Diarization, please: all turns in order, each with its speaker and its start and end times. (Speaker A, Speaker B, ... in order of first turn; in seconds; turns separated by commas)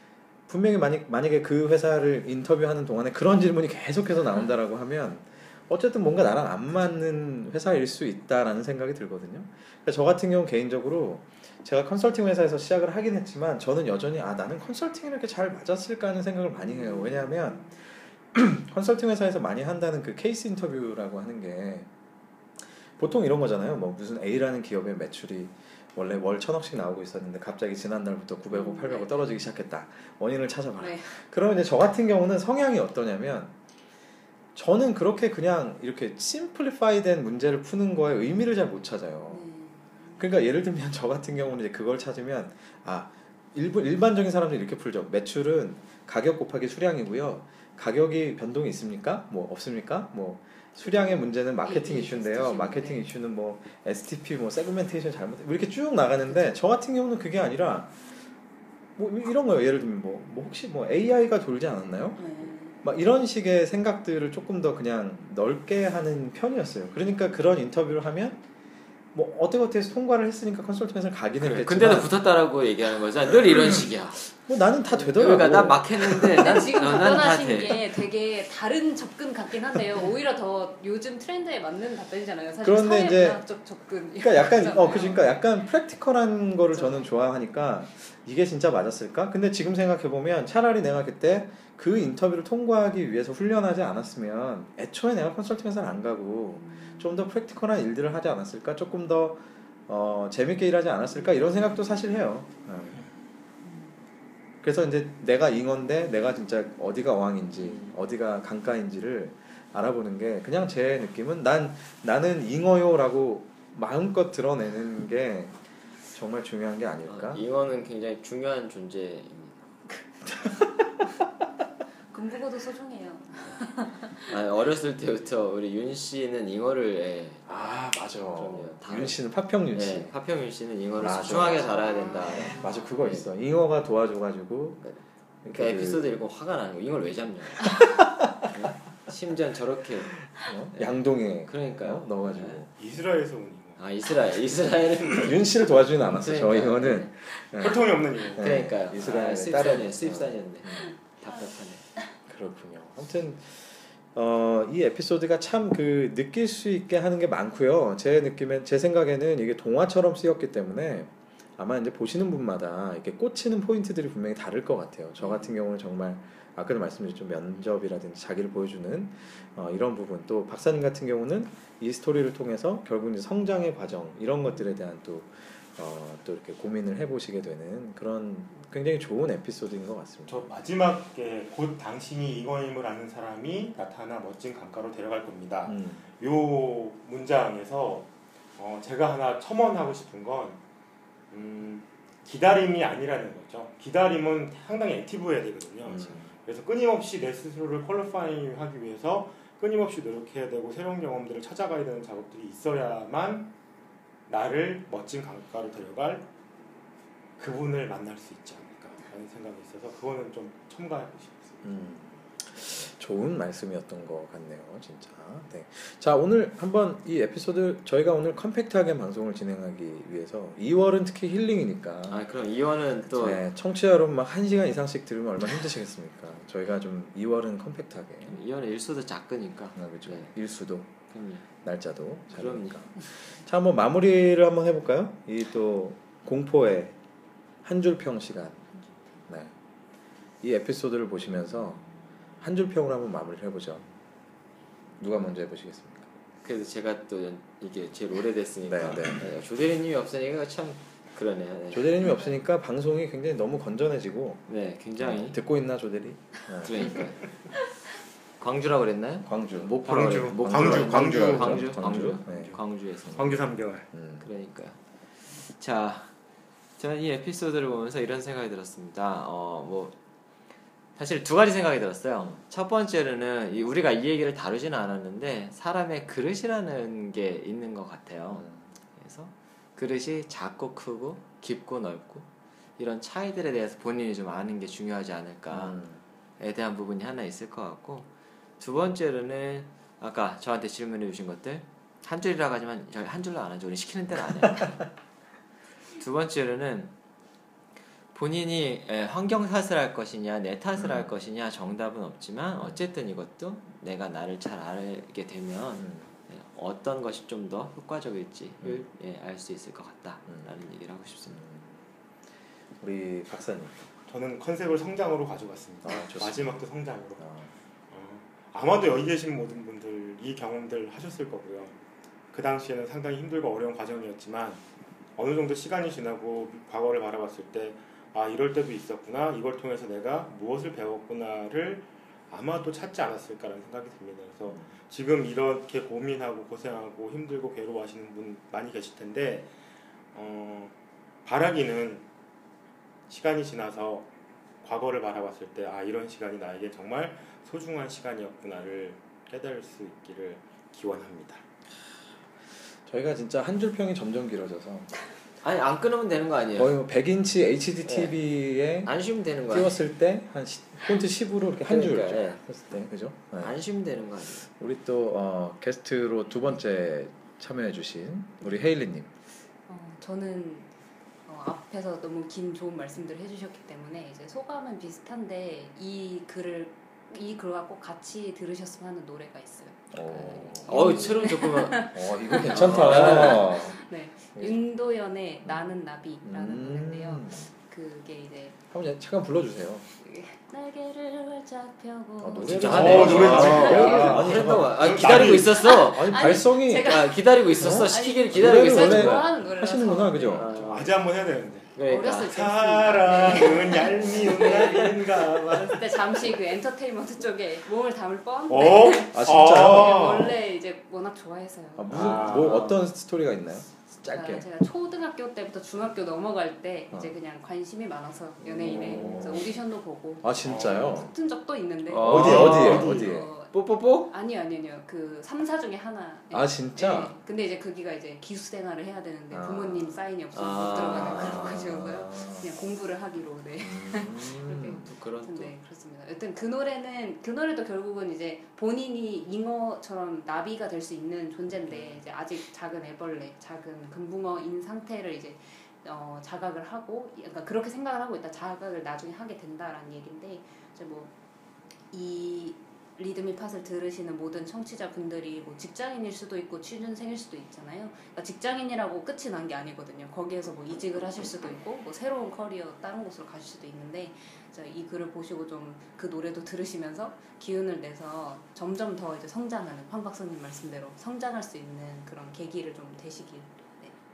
Speaker A: 0.5-21.9, Speaker B: 16.7-17.8, Speaker A: 22.9-33.5, Speaker B: 28.5-29.2, Speaker B: 30.8-31.1, Speaker A: 34.5-39.5, Speaker B: 39.3-40.3, Speaker A: 40.2-58.0, Speaker B: 51.6-53.1, Speaker A: 59.0-68.4, Speaker B: 62.2-62.8, Speaker A: 69.1-72.1, Speaker C: 71.4-74.3, Speaker A: 73.5-73.8, Speaker A: 74.3-76.7, Speaker C: 74.9-77.9, Speaker B: 76.4-85.4, Speaker A: 82.6-83.4, Speaker A: 84.2-103.0, Speaker B: 86.7-87.1, Speaker A: 104.6-115.6, Speaker C: 107.6-107.9, Speaker A: 116.1-117.4, Speaker C: 117.0-119.7, Speaker B: 122.1-124.3, Speaker C: 124.3-127.5, Speaker A: 127.5-130.1, Speaker C: 128.3-133.3, Speaker A: 131.0-134.8, Speaker C: 134.8-142.6, Speaker A: 135.4-136.1, Speaker A: 137.8-138.4, Speaker A: 140.3-142.7, Speaker D: 142.8-143.8, Speaker C: 143.8-147.1, Speaker A: 145.1-150.9, Speaker D: 147.6-148.7, Speaker C: 148.4-151.9, Speaker A: 152.3-180.4, Speaker B: 165.2-165.5, Speaker D: 180.3-190.6, Speaker A: 185.6-186.0, Speaker D: 191.3-203.5, Speaker A: 195.8-196.3, Speaker D: 204.3-206.3, Speaker D: 207.4-211.8, Speaker A: 211.6-222.2, Speaker C: 222.1-223.4, Speaker A: 223.1-228.4, Speaker C: 228.3-230.3, Speaker A: 229.8-230.9, Speaker C: 231.1-231.5, Speaker A: 231.6-237.0, Speaker C: 232.3-232.9, Speaker A: 237.6-238.6, Speaker A: 240.4-241.8, Speaker A: 242.4-243.8, Speaker A: 245.0-246.1, Speaker C: 246.4-251.9, Speaker A: 248.6-249.3, Speaker A: 251.7-254.4, Speaker C: 254.5-255.4, Speaker A: 255.0-257.0, Speaker C: 256.6-257.3, Speaker C: 258.4-263.4, Speaker A: 259.2-263.3, Speaker D: 259.8-263.9, Speaker A: 263.9-264.2, Speaker C: 264.2-264.8, Speaker C: 265.3-266.1, Speaker C: 266.8-269.9, Speaker C: 271.0-285.8, Speaker A: 278.3-278.6, Speaker A: 285.5-286.0, Speaker C: 286.4-288.1, Speaker C: 288.6-294.9, Speaker C: 296.0-296.9, Speaker C: 298.1-311.4, Speaker A: 300.8-301.2, Speaker A: 305.8-306.1, Speaker A: 311.3-311.8, Speaker A: 312.8-313.9, Speaker D: 314.1-317.2, Speaker A: 315.8-316.6, Speaker A: 317.2-317.5, Speaker D: 317.9-321.8, Speaker D: 322.3-324.6, Speaker D: 325.2-339.5, Speaker D: 340.1-342.1, Speaker D: 343.1-344.1, Speaker D: 344.6-351.4, Speaker A: 352.8-354.9, Speaker C: 355.4-356.7, Speaker A: 356.6-358.9, Speaker C: 357.8-358.2, Speaker C: 358.8-359.8, Speaker A: 359.5-363.6, Speaker C: 361.7-362.4, Speaker C: 363.4-364.4, Speaker A: 364.4-369.1, Speaker B: 369.7-370.7, Speaker B: 371.3-388.6, Speaker A: 379.9-381.1, Speaker C: 380.7-381.9, Speaker A: 381.9-383.8, Speaker C: 382.4-383.4, Speaker A: 386.2-387.5, Speaker A: 388.7-389.9, Speaker B: 390.0-394.2, Speaker A: 392.2-397.0, Speaker C: 392.5-399.3, Speaker D: 392.6-395.7, Speaker B: 395.5-400.6, Speaker A: 397.6-400.6, Speaker C: 400.3-400.9, Speaker D: 400.6-406.0, Speaker C: 401.8-402.5, Speaker B: 401.9-412.1, Speaker C: 403.2-405.5, Speaker D: 408.5-410.3, Speaker A: 409.1-410.4, Speaker A: 411.8-414.5, Speaker C: 411.9-412.8, Speaker D: 411.9-412.6, Speaker B: 414.1-423.5, Speaker A: 418.4-419.6, Speaker D: 418.9-419.3, Speaker A: 420.2-421.1, Speaker D: 420.4-421.0, Speaker C: 421.9-424.1, Speaker A: 422.0-423.3, Speaker D: 422.0-423.1, Speaker B: 424.1-451.1, Speaker A: 426.3-427.2, Speaker A: 429.3-429.9, Speaker C: 430.3-431.6, Speaker A: 430.9-432.5, Speaker A: 433.6-434.9, Speaker C: 434.6-435.5, Speaker A: 441.7-442.0, Speaker B: 451.9-473.9